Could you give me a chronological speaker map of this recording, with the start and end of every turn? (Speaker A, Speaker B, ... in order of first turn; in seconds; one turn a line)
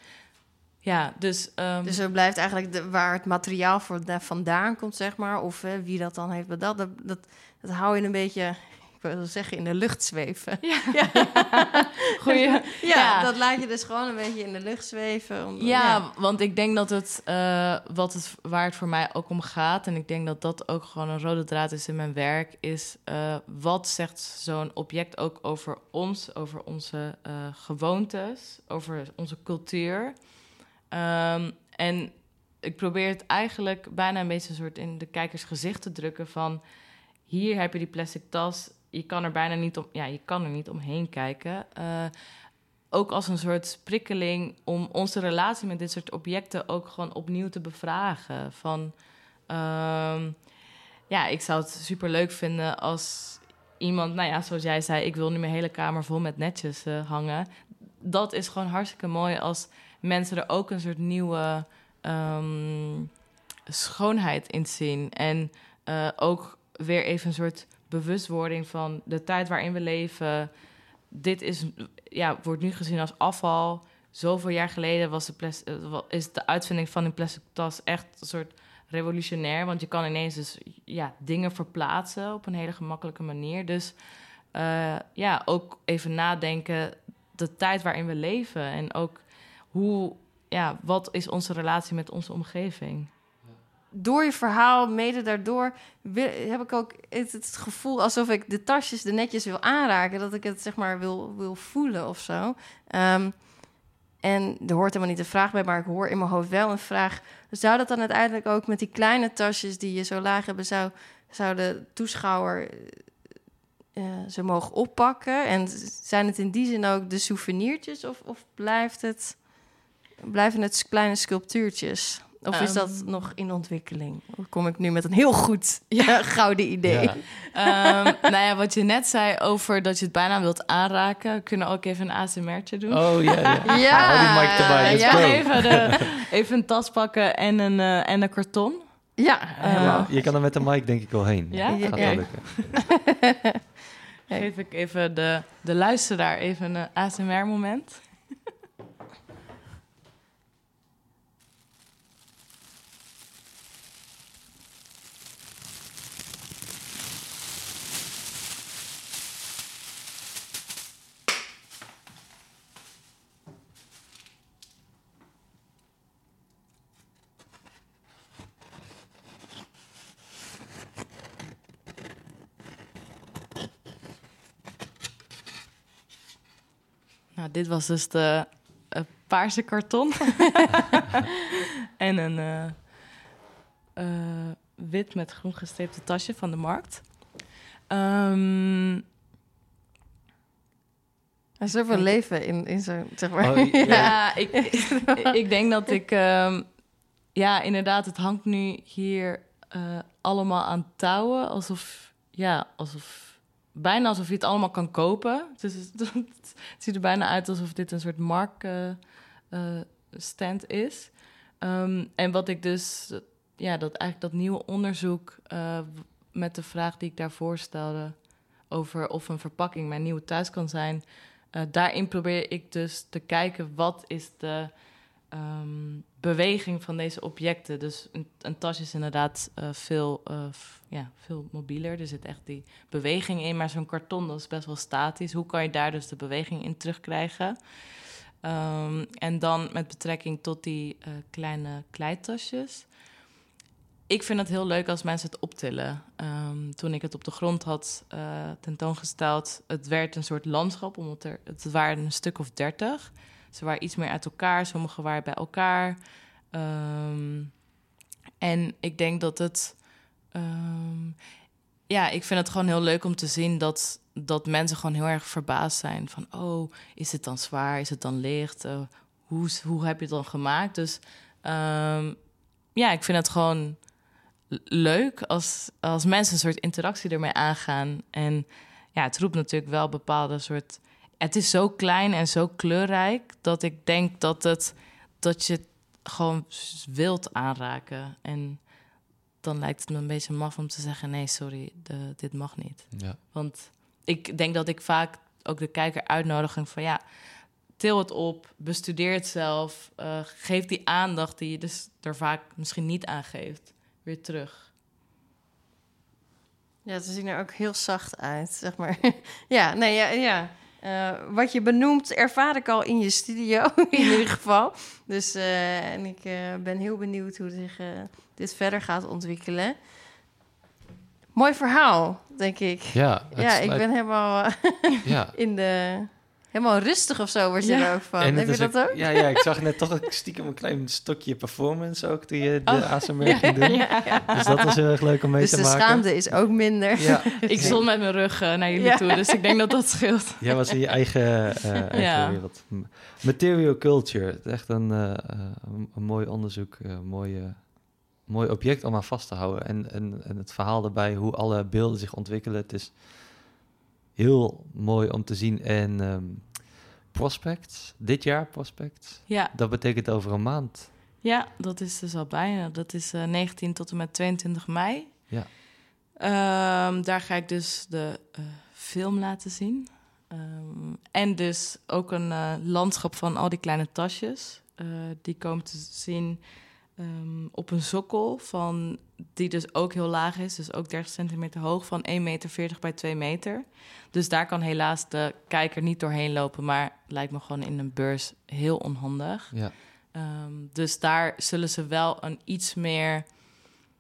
Speaker A: 0.8-2.0
Speaker B: 1.8-16.1
Speaker A: 10.6-13.3
Speaker A: 15.6-30.4
Speaker A: 30.9-36.6
Speaker A: 37.3-42.1
Speaker A: 42.9-49.0
Speaker A: 49.5-50.4
Speaker A: 51.1-63.1
Speaker A: 63.7-70.5
Speaker A: 71.1-84.0
Speaker A: 84.5-93.1
Speaker B: 93.9-113.1
Speaker B: 113.9-119.6
Speaker B: 120.2-128.0
Speaker A: 122.5-123.3
Speaker A: 125.9-126.3
Speaker C: 126.8-127.2
Speaker A: 127.5-140.2
Speaker C: 132.9-136.1
Speaker B: 133.7-135.9
Speaker B: 139.2-140.5
Speaker C: 139.7-142.5
Speaker A: 141.5-142.8
Speaker B: 141.7-142.9
Speaker A: 144.3-148.3
Speaker A: 177.3-181.2
Speaker A: 182.0-183.0
Speaker A: 184.0-189.0
Speaker B: 191.6-195.3
Speaker A: 191.9-192.2
Speaker C: 193.4-194.3
Speaker A: 193.8-237.8
Speaker A: 238.4-242.9
Speaker A: 244.1-256.0
Speaker A: 256.5-257.6
Speaker A: 258.4-261.2
Speaker A: 261.9-272.2
Speaker A: 272.7-273.9
Speaker A: 274.5-297.0
Speaker C: 292.9-293.2
Speaker A: 297.6-304.7
Speaker B: 306.9-319.9
Speaker B: 321.3-329.6
Speaker C: 322.9-323.9
Speaker C: 325.1-325.3
Speaker A: 327.6-328.0
Speaker C: 328.2-337.8
Speaker A: 332.7-334.3
Speaker B: 333.4-339.5
Speaker A: 337.4-340.5
Speaker C: 340.4-353.6
Speaker A: 341.9-342.4
Speaker C: 354.2-360.9
Speaker A: 359.3-359.5
Speaker A: 361.2-365.4
Speaker A: 366.2-376.4
Speaker A: 377.0-393.5